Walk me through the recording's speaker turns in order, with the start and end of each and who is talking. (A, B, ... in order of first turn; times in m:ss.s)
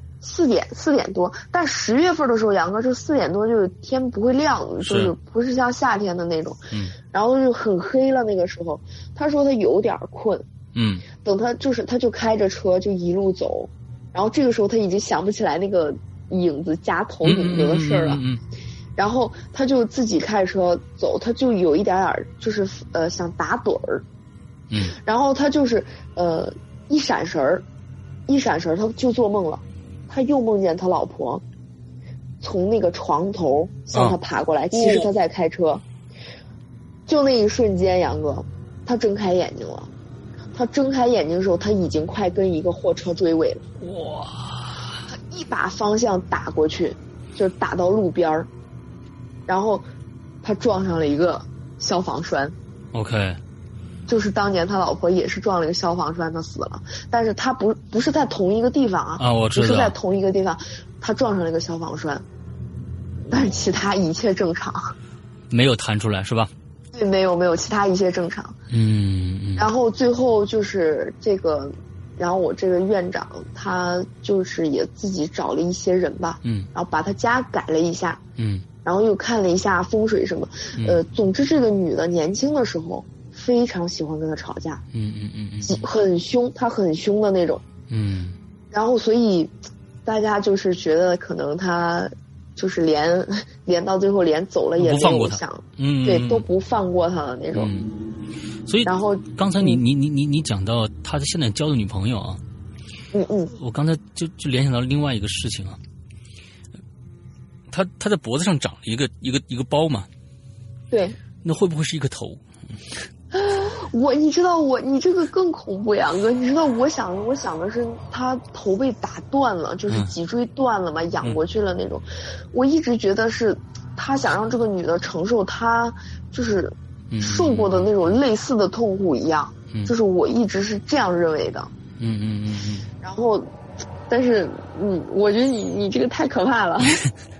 0:00.2-0:10.4 A
0:04.8-0:05.1 B
0:10.7-0:11.0 B
0:11.1-0:18.2 A
0:17.2-0:18.4 B
0:19.0-0:24.0 A
0:24.7-0:24.9 B
0:25.0-0:27.6 A
0:28.3-0:31.4 A
0:32.4-0:35.8 A
0:34.7-0:35.1 B
0:37.1-0:39.9 A
0:40.5-0:43.6 A
0:43.8-0:45.0 B
0:45.1-0:48.5 A
0:49.5-0:49.8 A
0:50.4-0:52.5 A
0:52.9-0:53.4 B
0:54.1-1:02.2 A
0:59.2-0:59.9 B
1:03.3-1:04.9 A
1:05.5-1:06.5 B
1:06.9-1:08.5 A
1:08.7-1:09.6 B
1:09.6-1:18.2 A
1:18.4-1:18.6 B
1:18.8-1:24.8 A
1:24.9-1:25.8 B
1:25.6-1:27.6 A
1:27.9-1:28.4 B
1:28.7-1:29.5 A
1:30.0-1:37.7 A
1:34.8-1:36.4 B
1:37.5-1:37.9 B
1:38.6-1:42.4 B
1:38.8-1:39.8 A
1:43.1-1:43.5 A
1:43.6-1:45.8 B
1:47.7-1:50.1 B
1:50.9-1:51.2 A
1:51.4-1:52.4 B
1:53.3-2:11.7 A
2:07.1-2:08.1 B
2:12.0-2:12.9 B
2:13.0-2:13.5 A
2:14.1-2:17.0 A
2:16.8-2:17.1 B